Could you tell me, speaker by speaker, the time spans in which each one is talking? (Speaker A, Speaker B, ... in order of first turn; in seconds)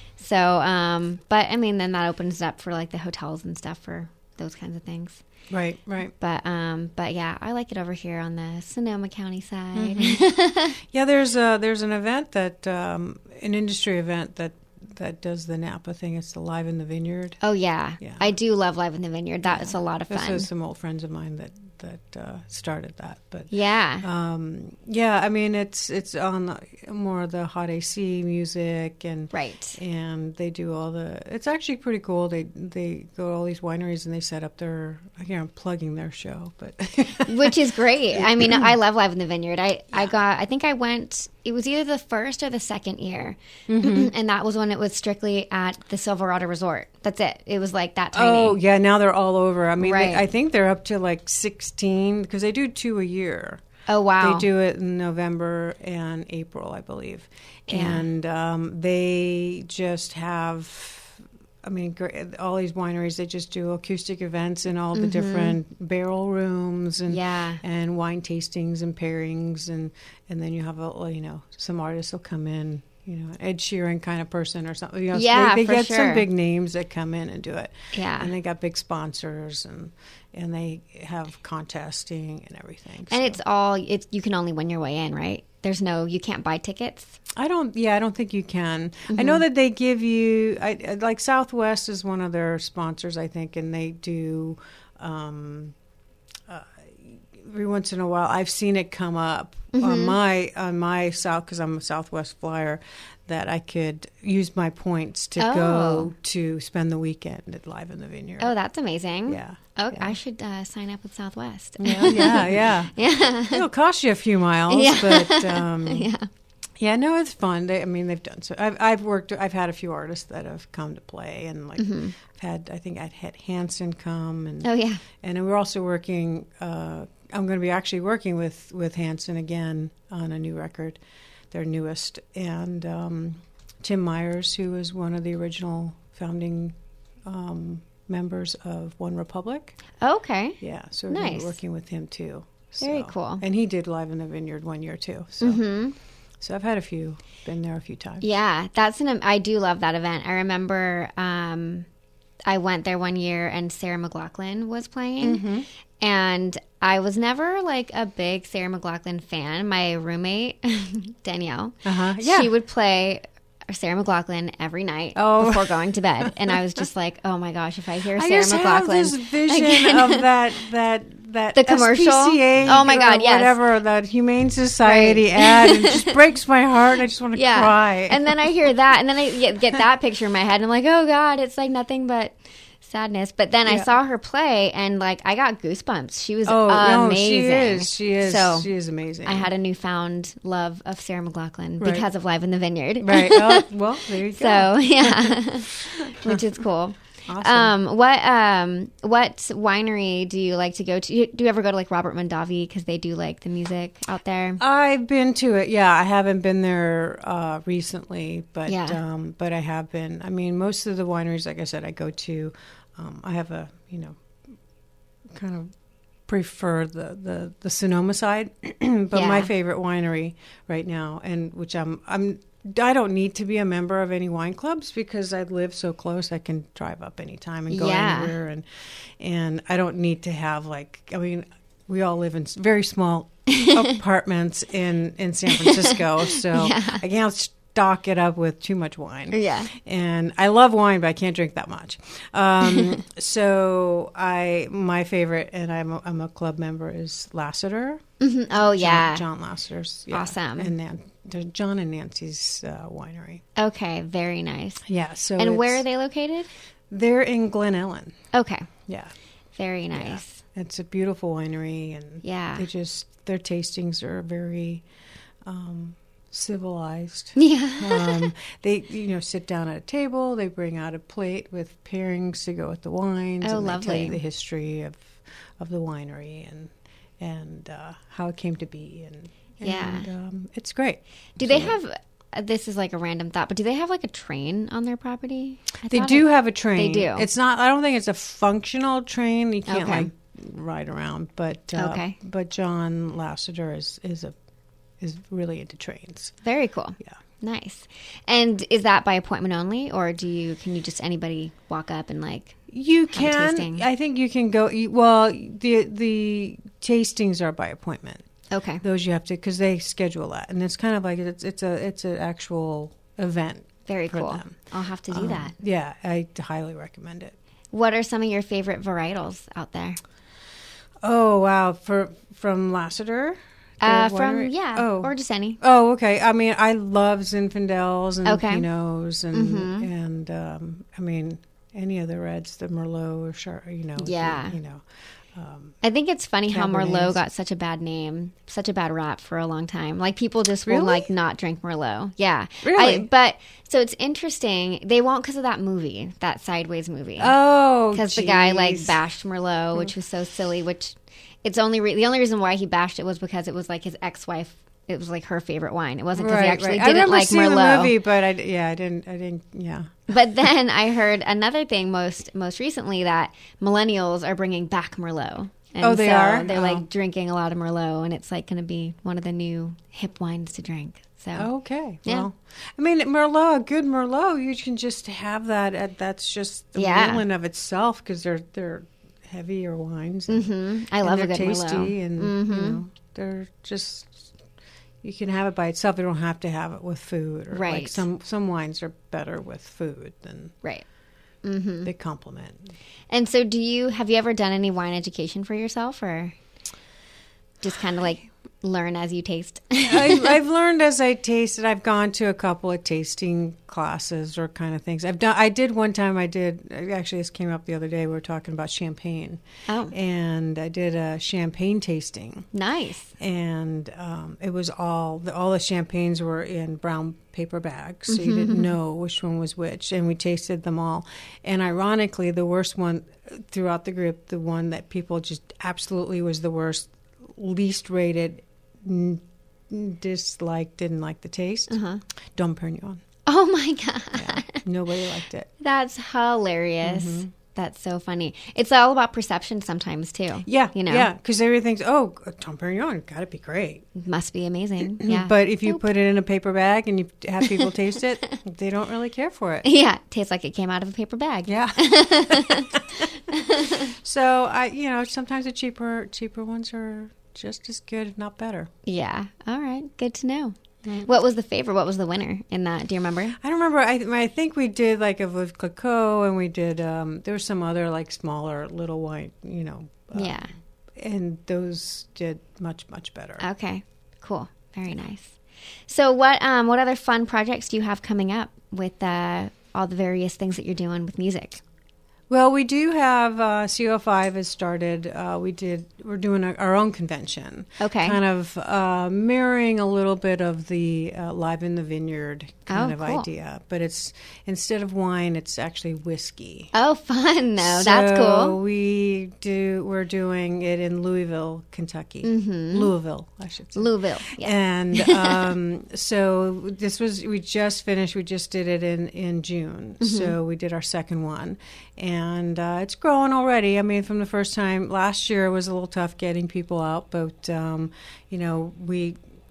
Speaker A: 0.2-5.2, 6.2-10.8, 17.4-20.5, 23.5-24.1, 29.3-29.8, 37.2-48.6, 49.8-50.3, 53.9-54.5, 57.7-58.0, 64.9-65.6, 67.1-67.6, 75.1-76.2, 77.9-78.3, 83.1-87.2, 89.1-89.4, 99.7-100.2, 105.4-106.1, 108.4-113.7, 114.7-116.3, 121.8-122.2, 124.6-125.0, 140.0-141.6, 142.8-143.4, 145.4-145.9, 148.2-151.9, 152.4-155.4, 156.0-170.3, 171.5-173.6, 174.8-176.1, 177.3-188.7, 189.2-193.7, 194.3-204.6, 208.7-209.0, 219.1-219.5, 227.7-228.3, 233.5-233.9, 235.5-237.0, 239.3-239.7, 248.2-249.2, 250.1-250.7, 253.6-254.8, 255.4-256.5, 258.3-258.7, 259.6-260.4, 262.2-262.6, 267.4-268.3, 273.4-274.2, 279.6-280.1, 281.4-287.2, 289.7-290.1, 291.7-292.1, 296.4-302.6, 303.1-303.8, 308.5-308.8, 313.9-315.5, 317.7-320.0, 323.8-325.6, 328.2-328.6, 329.3-329.9, 334.0-334.6, 335.8-347.3, 347.9-357.9, 360.1-371.5, 376.8-377.2, 380.3-382.8, 387.5-388.1, 391.4-391.9, 393.1-396.4, 397.6-400.4, 409.7-409.9, 412.5-413.1, 418.1-418.7, 431.7-432.0, 433.2-434.6, 435.6-441.1, 443.9-445.8, 449.6-453.9, 458.8-463.4, 470.1-470.5, 473.4-475.4, 475.9-481.6, 487.8-488.2, 492.7-493.2, 496.7-498.6, 502.2-502.9, 503.8-505.5, 510.0-510.3
Speaker B: 5.5-6.1, 9.7-17.4, 18.0-18.3, 19.5-38.7, 43.7-44.1, 48.1-53.6, 54.2-83.4, 87.3-95.7, 96.5-108.5, 109.3-110.2, 111.8-116.1, 116.8-131.0, 131.5-139.8, 140.6-145.6, 146.4-148.3, 155.2-155.7, 161.8-162.5, 165.1-166.6, 168.2-178.3, 183.7-183.9, 186.4-189.5, 191.8-192.1, 193.0-196.6, 197.3-197.7, 204.6-214.2, 215.3-215.7, 216.3-253.4, 254.8-255.8, 256.9-258.1, 258.9-259.1, 259.9-264.8, 265.4-281.8, 285.9-294.3, 295.0-296.3, 302.7-308.2, 308.8-314.6, 315.1-317.3, 321.0-335.8, 336.5-337.2, 340.6-341.1, 342.6-343.1, 347.2-349.0, 356.1-360.0, 365.8-366.9, 371.4-384.3, 385.0-390.5, 391.8-392.7, 399.8-412.5, 413.2-431.8, 432.3-433.0, 434.1-435.5, 436.8-437.3, 440.4-443.8, 444.9-449.7, 451.5-453.0, 453.7-458.7, 463.4-470.4, 470.9-473.4, 482.3-496.7, 497.6-519.2